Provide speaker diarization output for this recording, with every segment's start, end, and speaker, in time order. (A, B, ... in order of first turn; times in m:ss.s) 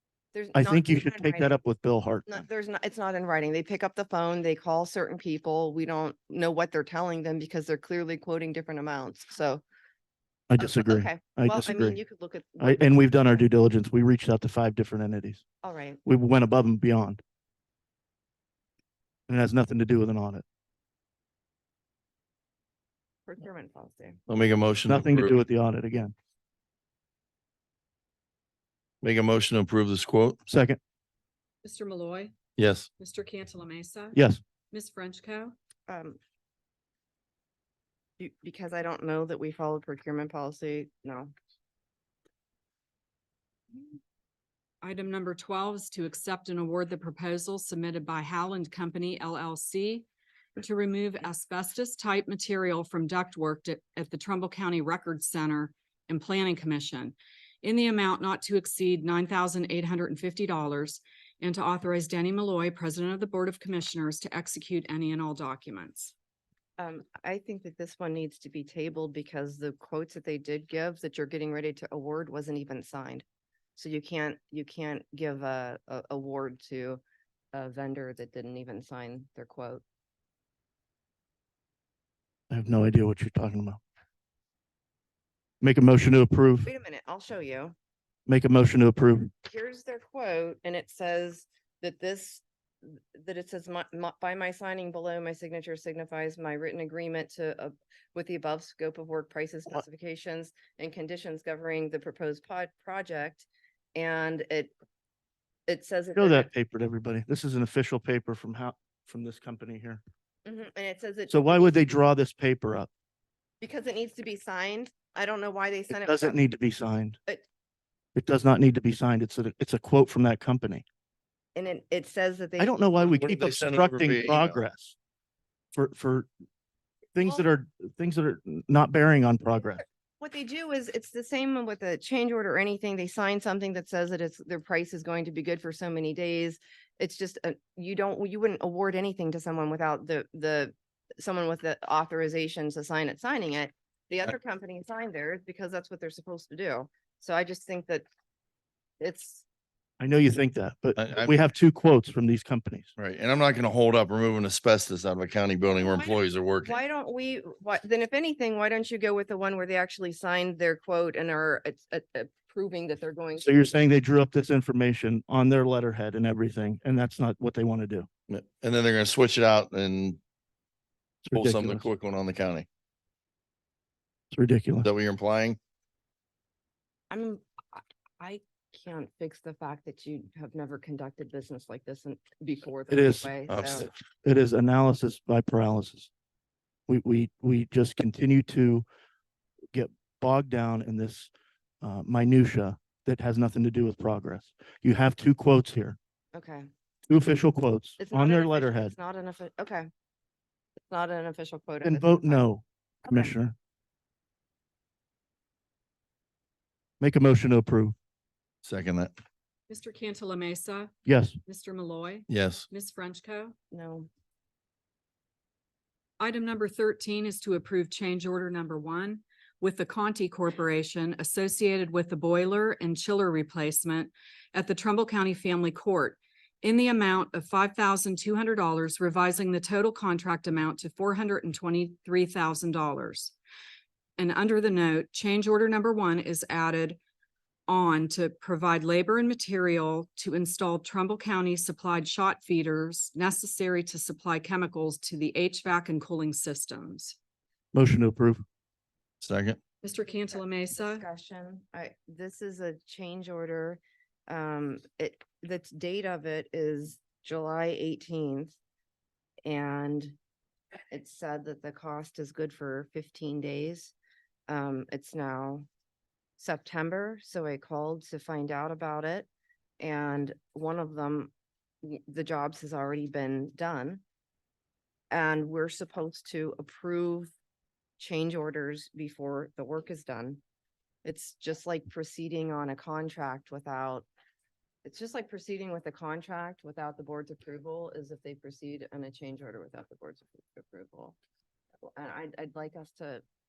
0:00.3-0:01.6 A
0:00.5-0:02.4 B
0:02.3-0:09.6 A
0:10.5-0:12.0 B
0:10.6-0:12.9 A
0:12.6-0:15.4 B
0:15.6-0:16.0 A
0:16.0-0:17.2 B
0:19.3-0:20.4 B
0:23.3-0:24.2 A
0:24.3-0:25.4 C
0:24.9-0:26.1 B
0:29.0-0:30.4 C
0:30.5-0:30.8 B
0:31.6-0:32.3 D
0:32.6-0:32.9 C
0:33.0-0:34.2 D
0:34.1-0:34.4 B
0:34.7-0:35.5 D
0:35.9-0:36.2 A
0:38.2-0:41.3 A
0:44.8-1:06.1 D
1:06.8-1:13.2 A
1:13.8-1:17.0 A
1:17.5-1:19.8 A
1:22.5-1:23.8 B
1:25.6-1:26.7 B
1:26.6-1:27.7 A
1:28.3-1:29.3 B
1:29.4-1:44.7 A
1:45.7-1:46.5 A
1:46.2-1:50.0 B
1:50.4-1:52.0 A
1:51.3-1:52.9 B
1:53.6-1:56.4 A
1:55.9-1:57.2 B
1:58.1-2:00.8 B
2:01.5-2:03.1 A
2:02.6-2:05.0 B
2:03.1-2:04.6 C
2:05.7-2:06.3 B
2:07.1-2:09.8 B
2:10.2-2:28.0 A
2:29.0-2:29.4 A
2:30.0-2:32.9 B
2:31.0-2:31.4 C
2:33.0-2:36.8 C
2:35.7-2:43.8 A
2:43.4-2:48.1 B
2:48.3-2:50.2 C
2:51.2-2:51.8 B
2:51.3-2:52.7 C
2:54.3-2:54.9 B
2:54.8-2:55.6 C
2:57.1-3:03.9 A
3:02.9-3:03.3 B
3:03.5-3:03.9 C
3:04.2-3:06.1 B
3:06.9-3:08.8 B
3:09.7-3:16.0 B
3:16.3-3:16.7 A
3:17.1-3:18.9 B
3:18.0-3:19.9 A
3:20.9-3:22.4 A
3:21.8-3:23.5 B
3:23.0-3:23.3 A
3:27.0-3:27.9 B
3:28.6-3:29.1 C
3:29.7-3:33.5 D
3:31.0-3:31.4 B
3:32.3-3:32.6 C
3:33.7-3:34.1 A
3:36.2-3:53.3 D
3:54.2-3:57.0 D
3:57.7-4:07.2 D
4:07.7-4:08.4 B
4:09.2-4:09.6 C
4:09.8-4:11.0 D
4:10.7-4:18.6 A
4:19.4-4:20.2 A
4:20.9-4:23.9 A
4:24.5-4:25.7 A
4:26.4-4:29.3 A
4:29.8-4:34.0 A
4:35.1-4:37.3 A
4:38.0-4:40.4 A
4:41.0-4:44.1 A
4:44.8-4:51.2 A
4:51.9-4:53.2 A